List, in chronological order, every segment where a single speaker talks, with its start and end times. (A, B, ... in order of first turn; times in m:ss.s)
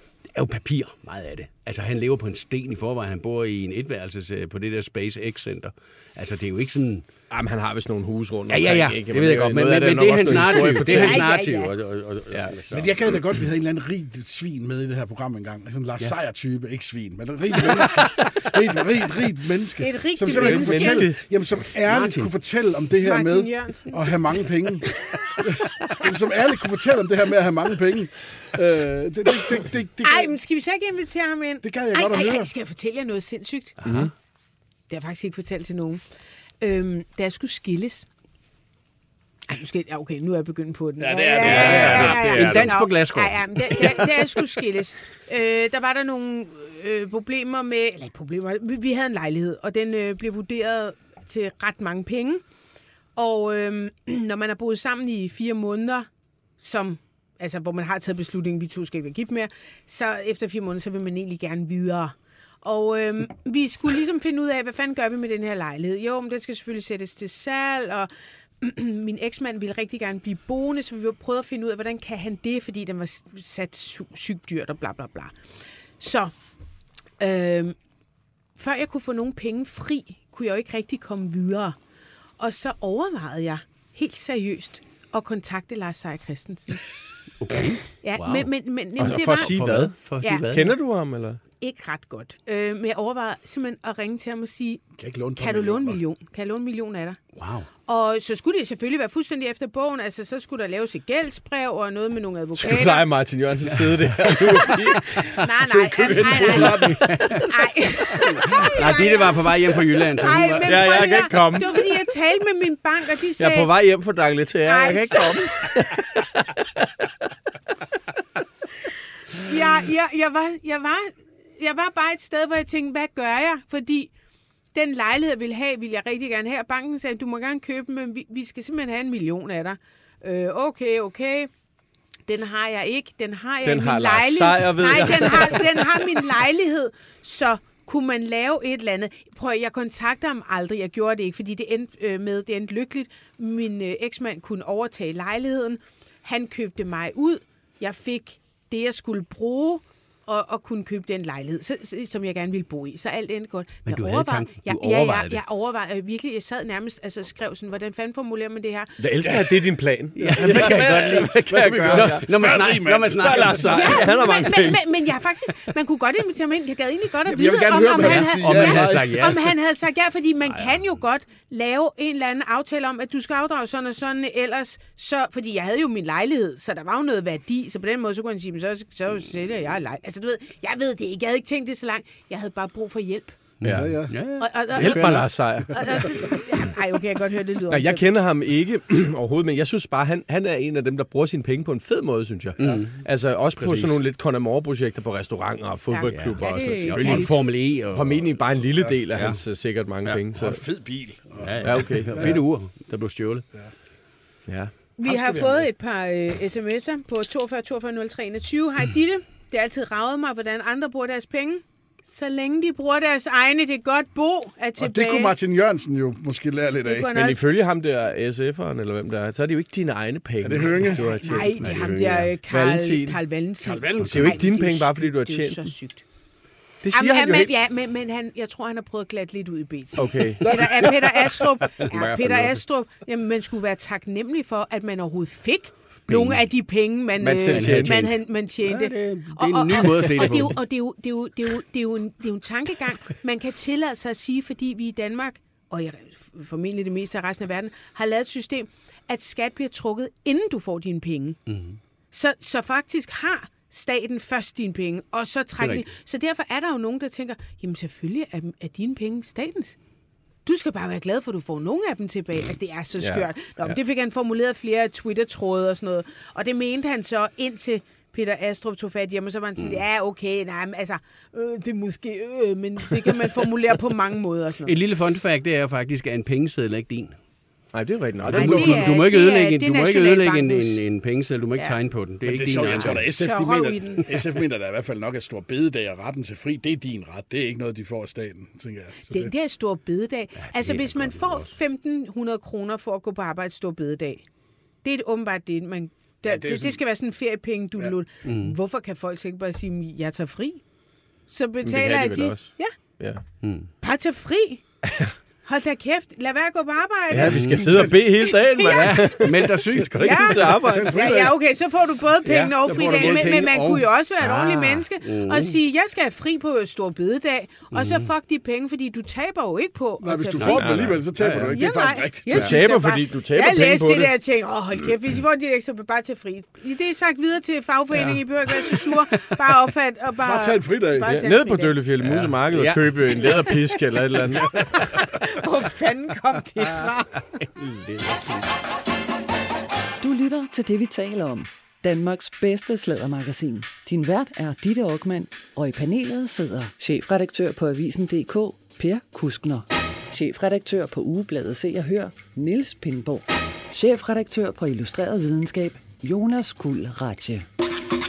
0:00.3-0:07.1 A
0:07.3-0:11.3 B
0:08.5-0:12.9 A
0:10.3-0:11.7 C
0:12.3-0:12.8 B
0:12.7-0:30.3 D
0:17.8-0:18.3 B
0:19.8-0:21.1 C
0:20.3-0:21.3 B
0:21.9-0:22.3 A
0:23.0-0:24.0 C
0:30.0-0:33.8 C
0:31.6-0:32.5 D
0:33.8-0:34.1 A
0:33.8-0:34.1 B
0:34.9-0:36.0 C
0:36.6-0:38.1 C
0:39.5-0:52.4 C
0:41.0-0:42.6 D
0:41.4-0:42.8 B
0:41.4-0:44.1 A
0:53.2-0:56.1 C
0:56.6-1:15.4 C
1:16.0-1:16.3 C
1:17.2-1:17.8 C
1:18.6-1:21.8 C
1:22.4-1:26.8 C
1:27.4-1:28.5 A
1:28.0-1:29.6 C
1:29.0-1:29.9 B
1:29.2-1:30.7 A
1:30.5-1:31.4 B
1:31.6-1:34.8 C
1:35.0-1:36.0 D
1:35.4-1:37.2 C
1:37.4-1:37.7 A
1:37.8-1:43.1 C
1:42.6-1:45.5 B
1:43.6-1:44.2 A
1:44.6-1:46.9 C
1:45.7-1:47.2 D
1:46.1-1:47.4 A
1:46.2-1:47.5 B
1:47.4-1:49.5 C
1:48.2-1:50.6 A
1:50.1-1:53.7 C
1:50.6-1:52.0 B
1:53.4-1:57.3 B
1:54.6-1:55.8 C
1:58.8-2:04.1 C
2:04.7-2:11.5 C
2:12.3-2:39.0 C
2:13.6-2:16.3 B
2:33.8-2:35.4 A
2:39.0-2:42.6 B
2:39.2-2:39.6 D
2:40.2-2:43.7 D
2:40.2-2:44.0 A
2:43.1-2:45.2 B
2:43.7-3:03.4 C
2:47.2-2:49.3 D
2:47.8-2:49.5 A
2:50.5-2:50.8 A
3:03.6-3:05.3 A
3:03.6-3:04.0 B
3:03.7-3:04.2 D
3:04.4-3:08.0 C
3:04.8-3:06.3 B
3:07.7-3:20.6 B
3:12.6-3:13.0 A
3:13.6-3:14.0 A
3:15.9-3:17.3 C
3:16.0-3:18.4 A
3:19.1-3:19.4 A
3:20.3-3:22.4 D
3:21.4-3:23.4 A
3:21.6-3:22.4 B
3:24.5-3:25.5 B
3:25.0-3:35.3 C
3:34.8-3:37.1 D
3:36.8-3:37.4 C
3:37.1-3:43.3 B
3:40.4-3:41.5 D
3:41.2-3:46.0 C
3:41.6-3:42.3 A
3:43.6-3:44.4 D
3:44.0-3:45.7 B
3:46.8-3:47.5 B
3:46.9-4:11.4 C
3:49.9-3:50.6 B
3:51.8-3:52.6 A
3:56.1-3:56.4 A
3:57.2-3:58.1 B
3:57.5-4:00.6 A
4:11.5-4:11.8 A
4:12.1-4:19.8 C
4:20.4-4:34.8 C
4:23.0-4:23.8 B
4:34.6-4:37.2 A
4:37.7-4:38.8 B
4:38.2-4:38.9 D
4:38.3-4:40.8 C
4:38.4-4:43.1 A
4:42.2-4:49.3 D
4:42.6-4:44.1 C
4:49.0-4:54.2 C
4:50.4-4:51.6 A
4:54.8-5:00.6 C
4:56.2-4:56.8 D
4:58.2-4:58.6 A
5:01.3-5:02.7 C
5:01.6-5:03.2 B
5:03.4-5:03.7 A
5:03.8-5:04.7 C
5:05.4-5:20.7 C
5:07.1-5:10.9 B
5:07.2-5:07.9 A
5:08.6-5:10.3 A
5:09.8-5:11.4 D
5:12.2-5:13.6 D
5:12.6-5:15.6 A
5:17.7-5:18.1 A
5:20.0-5:22.4 D
5:20.4-5:21.5 A
5:20.5-5:21.1 B
5:21.5-5:31.8 C
5:22.3-5:24.1 B
5:30.2-5:31.2 D
5:31.1-5:34.6 B
5:32.0-5:33.4 A
5:34.9-5:37.4 C
5:37.4-5:38.5 A
5:40.0-5:57.5 E